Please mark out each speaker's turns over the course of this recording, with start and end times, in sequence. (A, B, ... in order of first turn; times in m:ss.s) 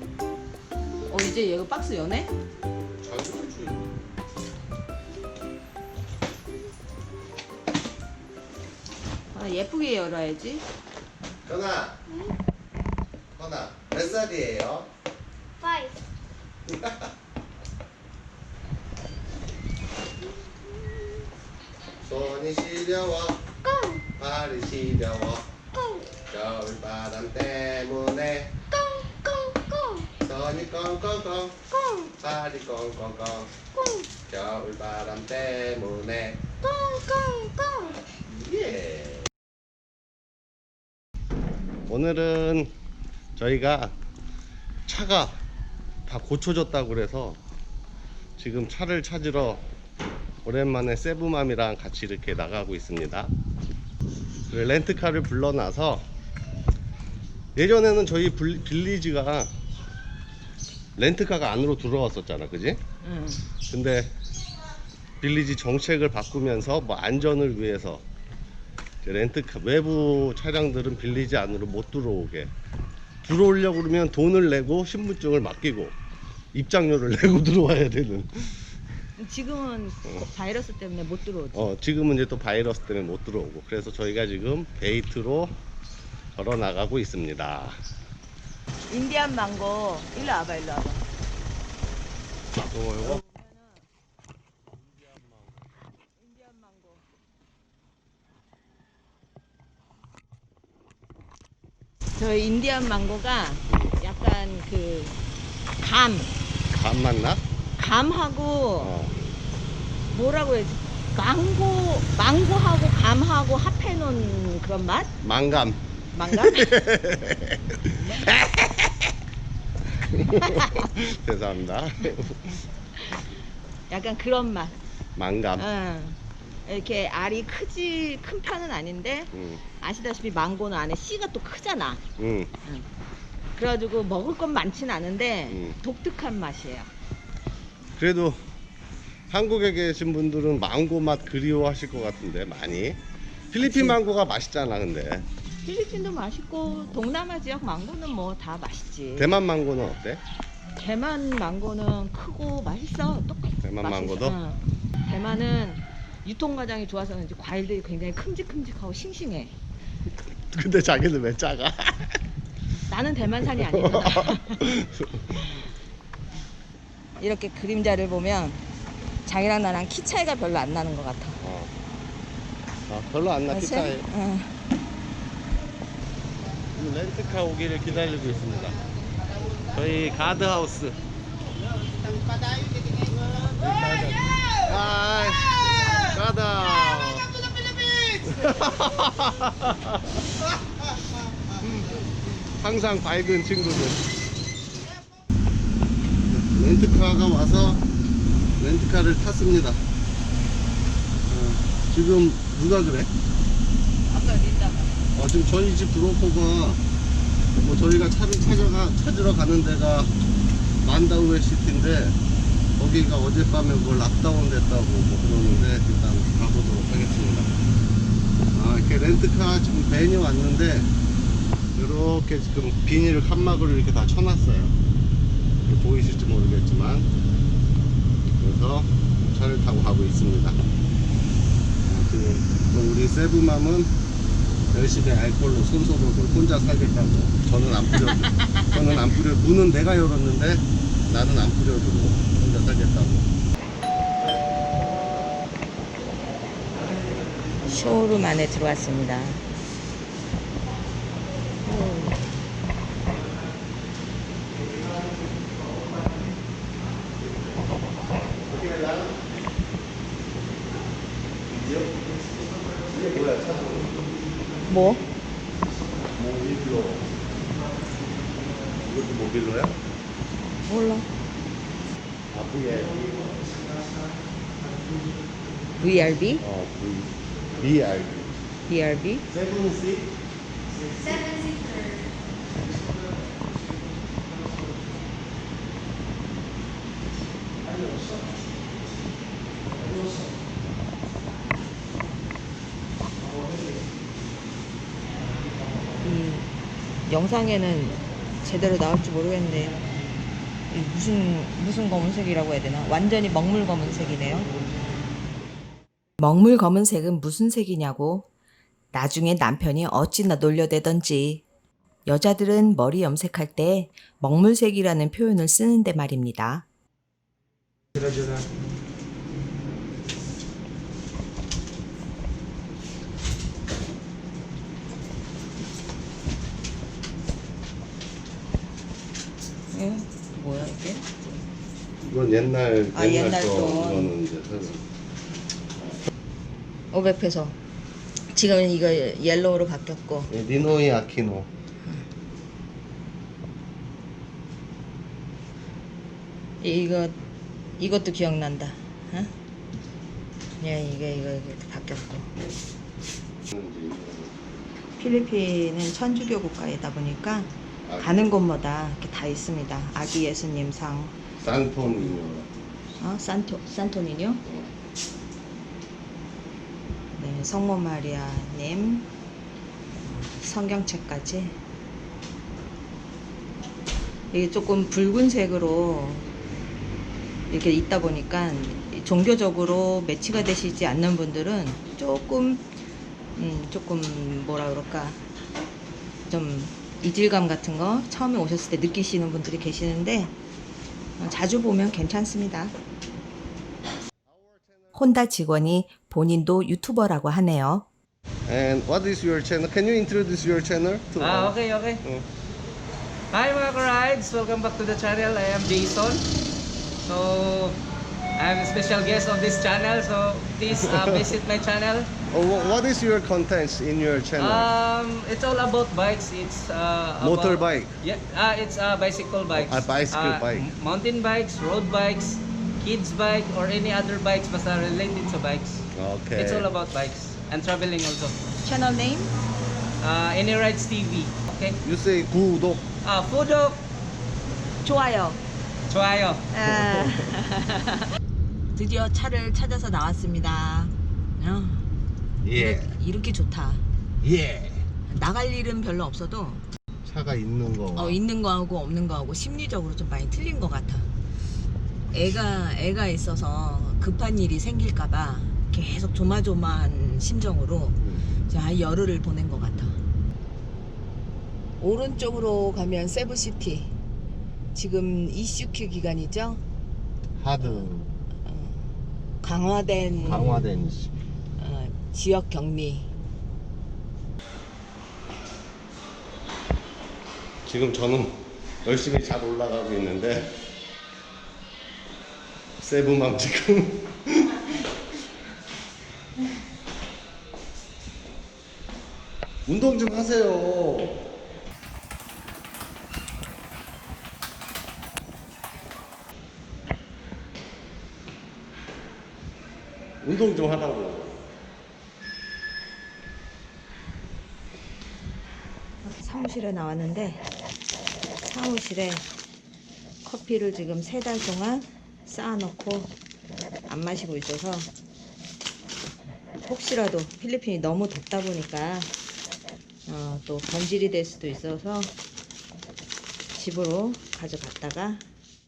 0:01.1-0:02.3 A
0:03.0-0:03.9 B
0:09.3-0:10.7 A
0:11.4-0:12.0 B
0:13.4-0:14.9 B
0:16.7-0:17.1 B
0:22.0-0:23.4 B
0:24.1-0:25.5 B
0:26.2-0:28.7 B
0:30.1-0:33.6 B
0:34.2-0:36.6 B
0:38.2-0:39.3 B
0:41.9-0:42.7 B
0:43.4-0:43.9 B
0:44.9-0:45.4 B
0:46.1-0:47.4 B
0:48.4-0:49.7 B
0:50.4-0:53.3 B
0:54.5-0:56.1 B
0:57.6-0:59.5 B
1:01.0-1:02.8 B
1:03.0-1:03.4 A
1:03.6-1:04.1 B
1:05.2-1:08.0 B
1:09.0-1:12.5 B
1:13.2-1:16.0 B
1:16.5-1:18.6 B
1:19.2-1:21.7 A
1:21.5-1:25.6 B
1:26.4-1:27.8 B
1:28.9-1:31.0 A
1:32.7-1:33.2 B
1:33.1-1:33.8 A
1:36.2-1:37.0 A
1:42.2-1:45.2 A
1:43.7-1:44.0 B
1:45.8-1:46.3 A
1:46.7-1:47.4 B
1:47.8-1:48.9 A
1:48.8-1:49.2 B
1:50.1-1:55.1 A
1:55.2-1:59.1 B
1:56.1-1:56.7 A
1:57.9-1:58.3 A
2:00.1-2:02.6 B
2:03.9-2:04.8 A
2:05.2-2:05.7 B
2:05.6-2:12.0 A
2:09.3-2:09.7 B
2:12.2-2:12.5 B
2:13.6-2:16.9 A
2:15.5-2:15.8 B
2:18.0-2:18.4 B
2:19.3-2:23.0 B
2:23.5-2:25.3 B
2:23.6-2:24.0 A
2:25.6-2:29.3 A
2:29.2-2:30.2 B
2:30.8-2:39.6 A
2:33.6-2:34.4 B
2:40.5-2:42.2 B
2:42.9-2:44.6 A
2:43.7-2:45.4 B
2:47.2-2:48.6 A
2:49.2-2:51.4 A
2:51.4-2:51.7 B
2:52.9-2:54.1 B
2:53.5-2:54.6 A
2:56.8-2:58.8 B
2:59.7-3:01.0 B
3:03.6-3:07.3 B
3:08.2-3:10.0 B
3:11.6-3:14.1 B
3:16.3-3:17.9 B
3:18.6-3:19.8 B
3:21.3-3:23.1 B
3:24.1-3:25.0 A
3:25.2-3:26.8 B
3:27.6-3:30.1 B
3:30.8-3:32.2 B
3:32.8-3:37.6 B
3:38.5-3:40.9 B
3:41.8-3:44.8 B
3:45.6-3:47.1 B
3:48.4-3:50.6 B
3:51.8-3:53.9 B
3:54.7-4:03.3 B
4:07.6-4:09.4 A
4:11.7-4:12.3 A
4:18.4-4:19.3 B
4:21.5-4:22.1 B
4:22.8-4:24.0 B
4:24.7-4:25.0 A
4:26.1-4:27.1 B
4:28.7-4:29.8 B
4:30.7-4:31.1 A
4:32.3-4:33.6 B
4:35.8-4:36.4 A
4:36.4-4:38.3 B
4:38.7-4:39.2 A
4:39.3-4:40.1 B
4:56.0-4:56.5 A
4:57.1-4:59.8 A
5:00.7-5:04.6 A
5:06.2-5:08.3 C
5:08.9-5:11.4 C
5:12.1-5:16.7 C
5:29.7-5:31.4 A
5:32.0-5:34.8 B
5:32.9-5:34.2 A
5:36.9-5:37.6 A
5:38.3-5:40.3 A
5:40.3-5:41.5 B
5:46.6-5:47.2 A
5:47.8-5:49.3 A
5:50.6-5:52.3 A
5:53.5-5:54.4 B
5:55.0-6:01.2 A
5:57.8-5:58.3 B
6:01.4-6:02.5 B
6:03.0-6:04.4 A
6:07.2-6:09.1 A
6:10.1-6:11.6 A
6:14.3-6:16.3 A
6:17.5-6:22.7 A
6:23.4-6:25.2 A
6:26.3-6:30.4 A
6:31.2-6:32.7 A
6:34.3-6:35.1 B
6:34.9-6:37.9 C
6:38.5-6:42.3 B
6:41.2-6:42.0 D
6:43.3-6:46.3 D
6:47.0-6:47.8 D
6:48.4-6:52.1 D
6:50.7-6:51.4 B
6:52.3-6:54.7 B
6:54.4-7:08.5 D
6:57.2-6:58.0 B
6:59.5-7:00.7 B
7:05.9-7:06.7 B
7:08.6-7:09.3 A
7:10.0-7:11.8 D
7:11.8-7:12.9 B
7:13.0-7:13.8 D
7:14.8-7:15.4 A
7:15.9-7:16.4 D
7:16.5-7:18.0 A
7:16.6-7:17.2 B
7:18.8-7:21.9 A
7:22.4-7:23.0 B
7:22.5-7:23.8 A
7:24.2-7:24.9 B
7:25.1-7:26.6 A
7:27.1-7:28.2 B
7:28.0-7:31.1 A
7:32.1-7:40.0 A
7:38.0-7:38.3 B
7:41.8-7:43.9 A
7:44.8-7:46.6 A
7:47.4-7:48.2 B
7:47.6-7:47.9 A
7:48.4-7:48.8 A
7:49.4-7:50.7 A
7:50.2-7:51.1 B
7:51.6-7:53.1 A
7:57.6-8:00.6 B
8:02.8-8:04.6 B
8:09.7-8:11.3 B
8:20.2-8:21.5 B
8:26.0-8:27.5 A
8:28.4-8:29.3 A
8:30.2-8:33.1 A
8:33.9-8:34.9 A
8:36.6-8:39.1 A
8:40.1-8:42.2 A
8:43.6-8:45.2 A